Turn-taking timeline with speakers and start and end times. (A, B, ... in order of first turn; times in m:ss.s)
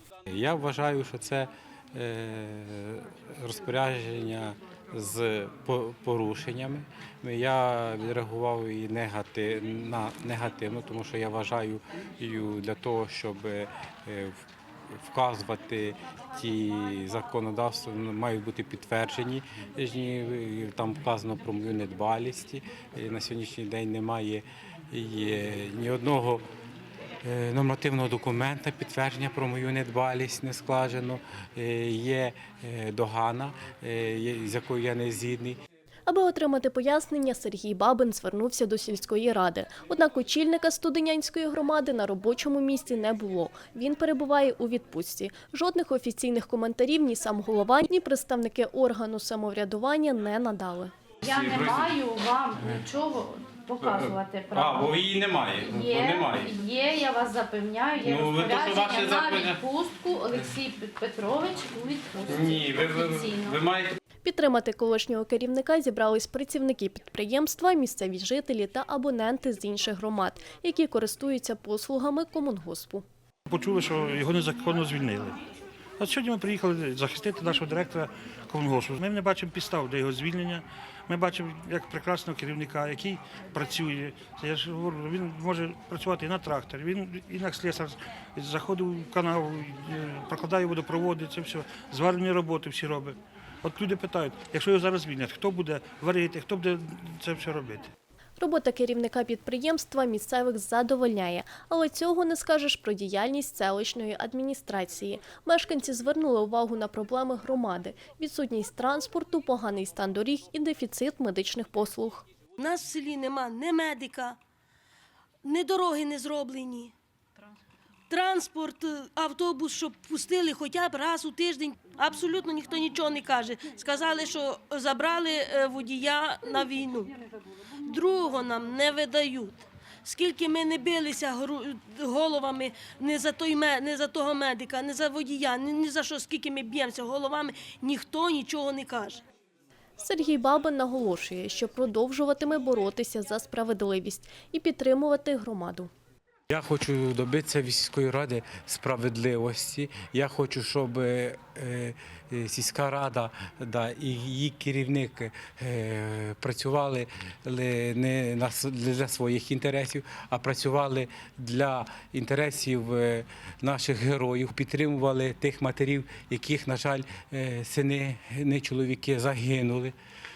0:00.3-0:14.4 A
0:14.9-0:26.4 A
0:27.2-0:35.6 A
0:36.1-0:50.9 B
0:51.2-0:52.0 A
0:51.2-0:54.9 C
0:53.8-0:56.5 A
0:55.6-1:03.6 C
0:58.0-0:59.6 A
1:02.3-1:04.0 A
1:04.2-1:13.0 B
1:13.5-1:15.4 D
1:16.0-1:37.9 D
1:38.4-1:52.2 B
1:52.6-1:54.4 E
1:55.4-1:56.9 E
1:58.1-2:07.1 E
2:07.8-2:19.2 E
2:20.0-2:25.9 B
2:26.5-2:49.9 A